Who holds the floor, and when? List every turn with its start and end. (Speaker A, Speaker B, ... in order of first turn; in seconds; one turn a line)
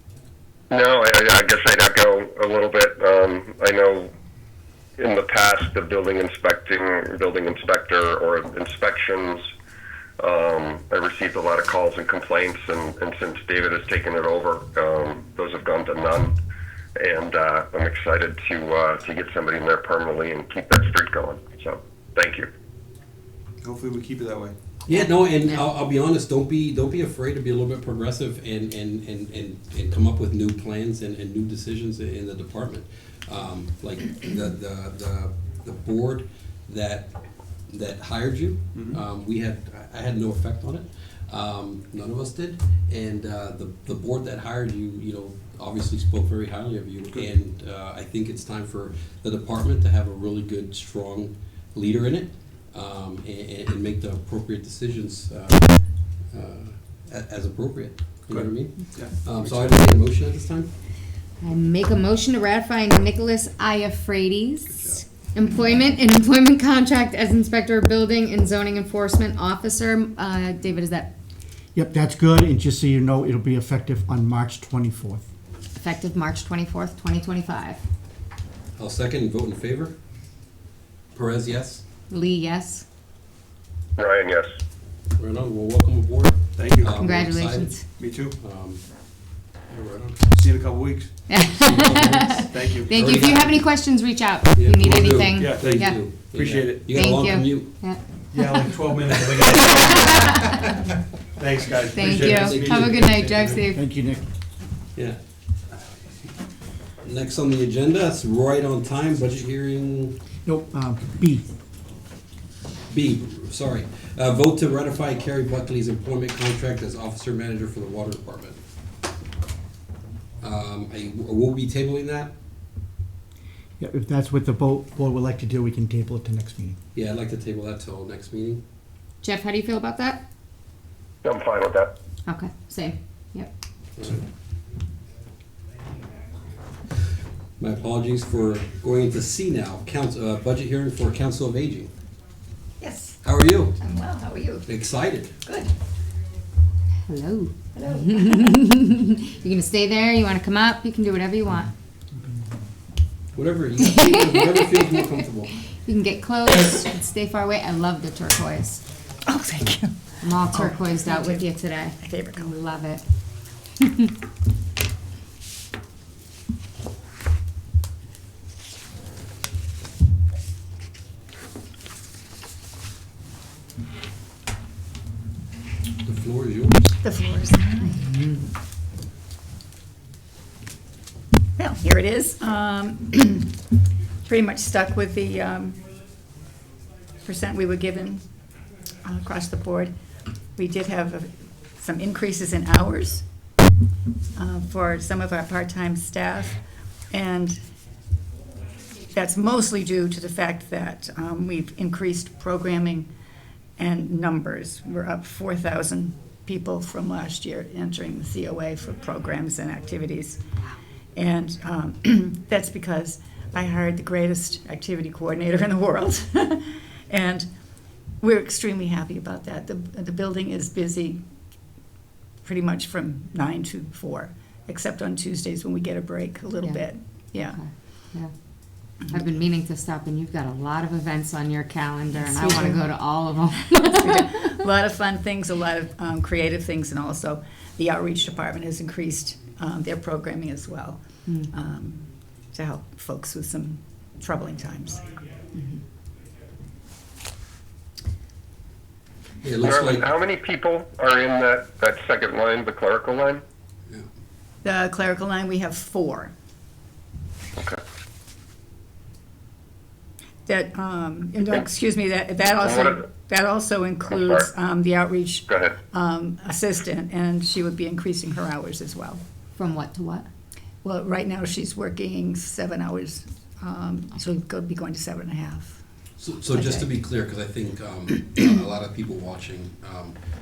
Speaker A: 0.7-4.1
Speaker A: 5.0-9.5
Speaker A: 10.2-16.3
Speaker A: 17.0-22.5
Speaker B: 23.6-24.6
Speaker C: 24.9-37.1
Speaker D: 24.9-25.6
Speaker C: 37.7-55.7
Speaker B: 38.7-39.0
Speaker C: 56.3-60.7
Speaker B: 58.3-59.7
Speaker D: 61.4-71.1
Speaker C: 64.7-65.0
Speaker E: 71.8-75.2
Speaker D: 75.8-77.8
Speaker C: 78.8-80.0
Speaker C: 81.1-81.8
Speaker D: 82.1-82.8
Speaker A: 84.0-84.5
Speaker C: 85.2-88.9
Speaker B: 86.6-87.1
Speaker D: 87.0-87.8
Speaker B: 88.0-88.4
Speaker C: 89.7-90.2
Speaker B: 90.3-91.3
Speaker D: 91.3-96.1
Speaker C: 91.5-93.8
Speaker B: 92.5-92.9
Speaker C: 94.5-97.7
Speaker B: 95.3-97.0
Speaker D: 96.9-100.8
Speaker B: 98.3-100.5
Speaker B: 101.4-103.3
Speaker D: 101.9-103.8
Speaker C: 102.0-103.6
Speaker E: 103.7-104.2
Speaker C: 107.0-110.2
Speaker E: 110.5-111.5
Speaker C: 112.9-118.6
Speaker C: 120.4-122.3
Speaker E: 123.8-126.8
Speaker C: 126.9-128.6
Speaker D: 129.2-130.2
Speaker A: 131.2-131.9
Speaker D: 132.2-133.5
Speaker C: 134.0-134.2
Speaker C: 137.6-141.9
Speaker F: 142.8-143.2
Speaker C: 143.2-143.8
Speaker F: 143.8-144.7
Speaker C: 144.7-145.3
Speaker F: 145.4-145.7
Speaker D: 147.1-151.7
Speaker F: 147.7-148.6
Speaker C: 153.3-155.5
Speaker D: 153.9-154.9
Speaker D: 155.9-158.8
Speaker F: 159.2-161.5
Speaker D: 160.2-163.0
Speaker F: 162.0-162.5
Speaker C: 176.0-176.9
Speaker F: 177.0-178.2
Speaker D: 178.0-178.3
Speaker F: 181.6-183.5
Speaker F: 184.3-185.8
Speaker F: 187.2-188.3
Speaker F: 189.0-189.9
Speaker F: 190.6-193.2
Speaker F: 194.4-196.6
Speaker F: 197.1-197.6
Speaker F: 199.1-203.1
Speaker F: 203.8-210.4
Speaker F: 211.2-217.5
Speaker F: 218.2-221.2
Speaker F: 222.4-227.6
Speaker D: 226.6-228.3
Speaker D: 229.0-234.5
Speaker F: 232.2-232.8
Speaker F: 233.9-245.0
Speaker C: 249.4-250.1
Speaker A: 249.6-253.4
Speaker F: 254.6-256.3
Speaker F: 260.5-269.2
Speaker A: 262.6-263.1
Speaker A: 264.1-264.5
Speaker A: 265.5-265.8
Speaker D: 269.6-270.3
Speaker F: 270.8-275.8
Speaker C: 276.2-280.2
Speaker F: 276.5-276.9